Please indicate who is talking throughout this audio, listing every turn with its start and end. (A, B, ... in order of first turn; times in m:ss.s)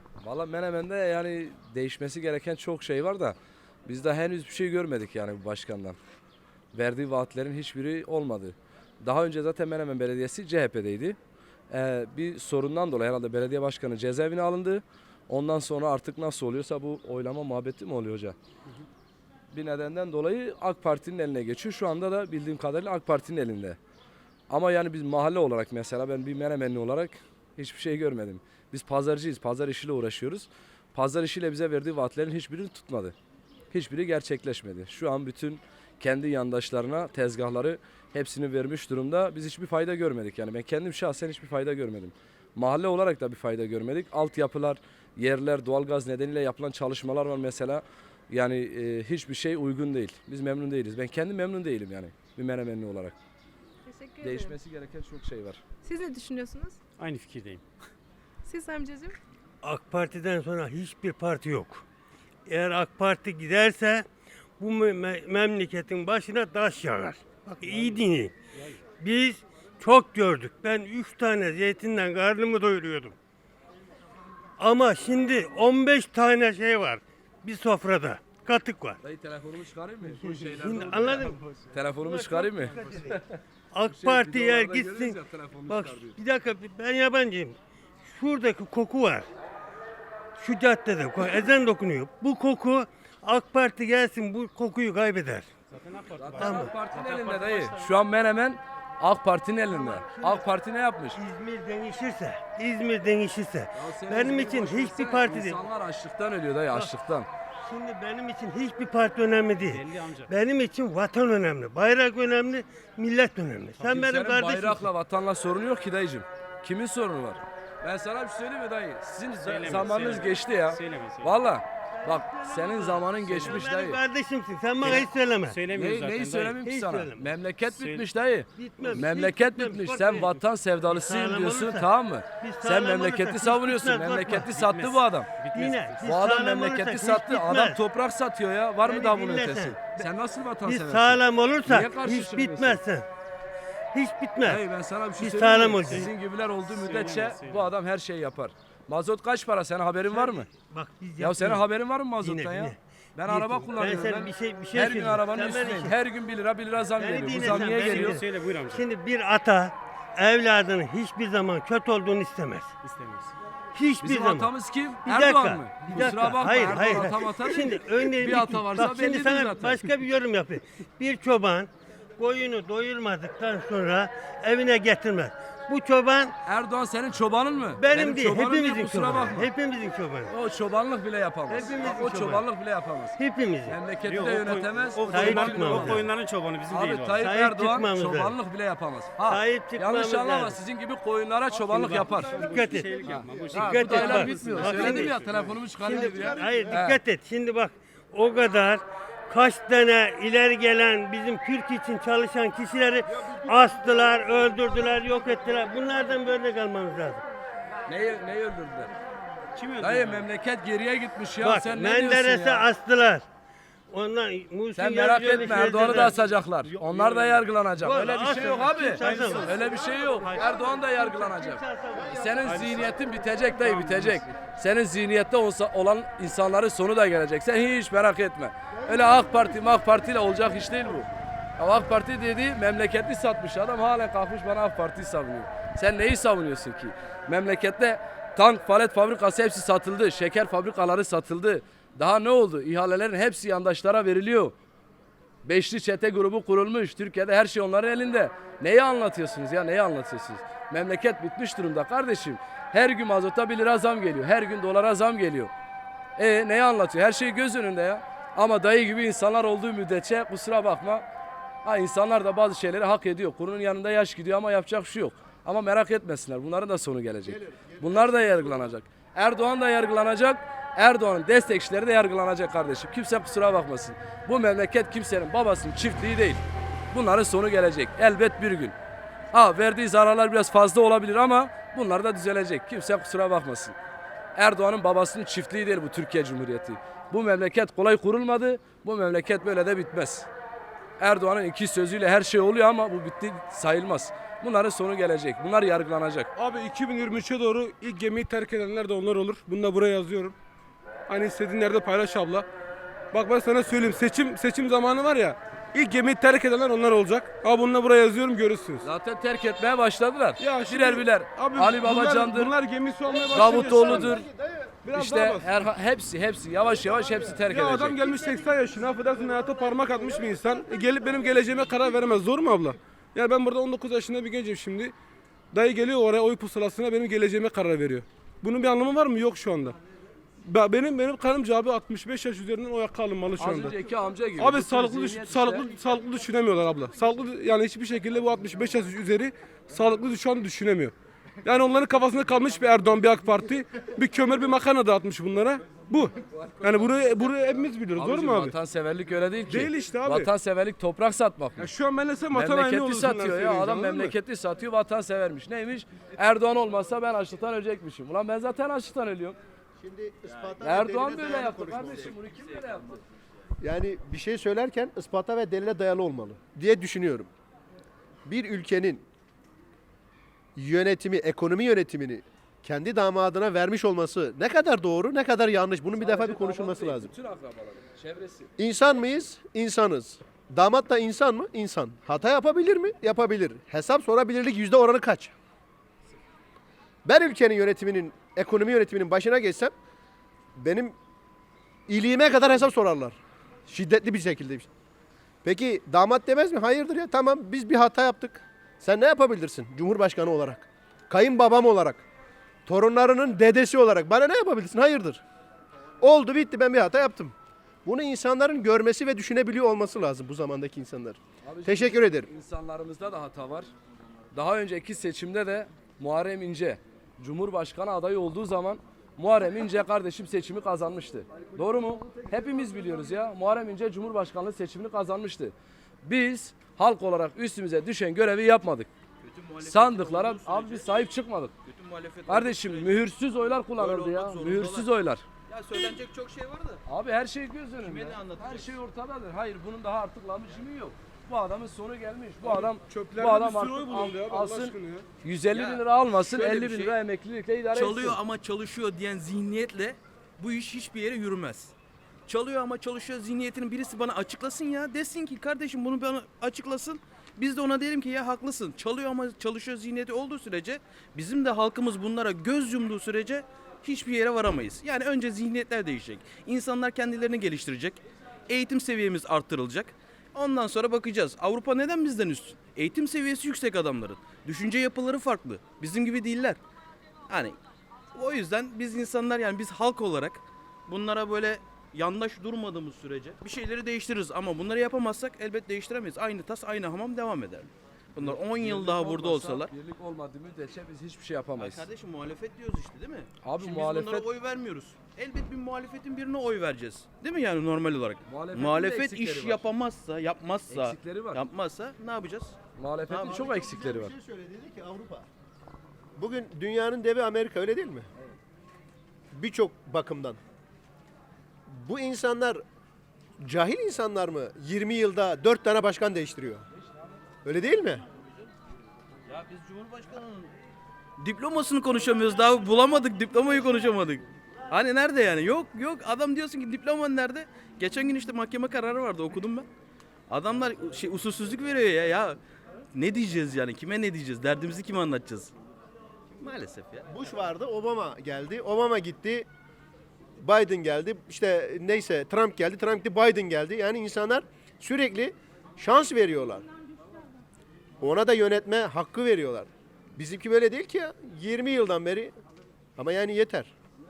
0:00.2-0:06.0 A
0:06.7-0:11.2 A
0:11.7-0:18.3 A
0:19.5-0:23.8 A
0:24.5-0:33.1 A
0:33.7-0:53.1 A
0:53.8-0:54.6 B
0:54.2-0:55.6 A
0:55.8-0:56.8 B
0:57.0-0:57.6 C
0:58.4-0:59.2 B
0:59.6-1:01.8 D
1:02.5-1:04.0 D
1:04.6-1:08.4 D
1:08.9-1:13.1 D
1:14.6-1:19.0 D
1:19.0-1:23.3 A
1:20.1-1:29.3 D
1:23.8-1:26.2 A
1:30.4-1:35.5 D
1:35.7-1:37.9 C
1:36.2-1:41.2 A
1:36.4-1:36.8 D
1:39.7-1:40.5 D
1:41.1-1:45.6 D
1:43.7-1:47.3 A
1:47.6-1:54.9 D
1:49.6-1:50.3 C
1:53.8-2:04.0 A
1:59.4-2:01.3 C
2:02.0-2:05.6 D
2:03.2-2:03.7 C
2:04.8-2:06.6 C
2:05.7-2:15.3 A
2:06.6-2:07.3 D
2:07.6-2:08.0 C
2:08.5-2:14.5 D
2:14.4-2:16.0 C
2:15.5-2:17.8 D
2:16.0-2:22.8 A
2:18.8-2:20.1 D
2:20.6-2:23.1 D
2:23.9-2:24.6 D
2:24.4-2:30.5 A
2:25.2-2:26.1 D
2:26.7-2:27.7 C
2:30.1-2:31.7 D
2:31.2-2:38.2 A
2:32.2-2:36.0 D
2:36.9-2:42.7 D
2:37.4-2:38.8 C
2:42.8-2:43.3 C
2:43.7-2:56.4 D
2:44.0-2:49.9 A
2:56.4-2:59.5 A
2:57.8-3:00.3 D
3:00.3-3:06.1 A
3:01.5-3:02.5 D
3:03.2-3:03.8 D
3:04.0-3:07.2 C
3:05.1-3:06.0 D
3:06.7-3:12.4 A
3:07.2-3:08.4 D
3:09.2-3:10.6 D
3:11.5-3:15.5 C
3:11.7-3:27.2 D
3:13.0-3:17.0 A
3:23.2-3:24.0 E
3:27.9-3:28.9 A
3:29.5-3:30.3 C
3:29.8-3:32.7 A
3:31.4-3:33.2 D
3:33.9-3:36.2 D
3:34.7-4:04.5 A
3:36.6-3:37.4 C
3:37.8-3:43.2 D
3:39.2-3:40.0 E
3:41.9-3:42.9 E
3:43.5-3:44.2 F
3:48.7-3:49.7 E
4:05.4-4:15.5 A
4:16.2-4:21.0 A
4:21.6-4:38.7 A
4:27.2-4:28.5 E
4:39.3-4:43.8 A
4:44.4-4:50.3 A
4:51.0-4:56.3 A
4:56.4-5:00.4 F
5:01.1-5:02.5 F
5:03.1-5:08.9 F
5:08.8-5:12.5 A
5:10.4-5:14.2 F
5:13.1-5:14.8 E
5:13.3-5:14.3 A
5:14.8-5:15.5 F
5:14.9-5:18.0 A
5:16.6-5:17.4 E
5:17.5-5:24.9 F
5:18.2-5:20.2 E
5:25.5-5:29.8 F
5:30.4-5:33.8 F
5:33.4-5:35.8 A
5:34.4-5:48.6 F
5:48.0-5:51.6 A
5:49.5-5:50.3 F
5:51.6-5:54.2 F
5:52.3-5:59.4 A
5:59.8-6:02.2 E
6:00.6-6:03.0 A
6:03.6-6:07.3 E
6:08.2-6:09.0 E
6:10.6-6:17.1 E
6:16.0-6:18.5 A
6:18.6-6:25.3 E
6:27.0-6:29.7 E
6:30.6-6:30.9 E
6:31.9-6:34.7 E
6:35.4-6:42.0 E
6:42.6-6:45.2 E
6:46.0-6:52.3 E
6:51.4-6:53.7 A
6:54.3-7:08.9 A
7:09.2-7:11.0 G
7:09.6-7:11.5 A
7:11.6-7:13.0 G
7:12.3-7:15.2 A
7:13.7-7:14.9 G
7:15.5-7:16.8 G
7:16.9-7:28.2 A
7:17.8-7:18.8 G
7:22.4-7:25.1 F
7:25.5-7:26.9 G
7:27.7-7:31.7 G
7:32.3-7:56.6 G
7:57.3-7:57.6 G
7:58.1-8:09.7 G
8:08.2-8:11.8 A
8:11.6-8:22.6 G
8:13.4-8:14.3 A
8:18.3-8:19.7 A
8:20.7-8:21.4 A
8:22.8-8:24.1 A
8:23.1-8:23.4 G
8:23.2-8:25.3 E
8:26.2-8:28.1 E
8:29.3-8:30.4 E
8:31.7-8:32.6 E
8:33.4-8:36.6 E
8:37.4-8:38.0 E
8:39.3-8:40.5 G
8:41.2-8:49.7 G
8:50.3-8:52.4 G
8:52.9-8:55.5 G
8:56.4-8:57.1 G
8:57.1-8:59.5 E
9:00.4-9:06.6 E
9:08.0-9:12.3 E
9:13.0-9:13.7 E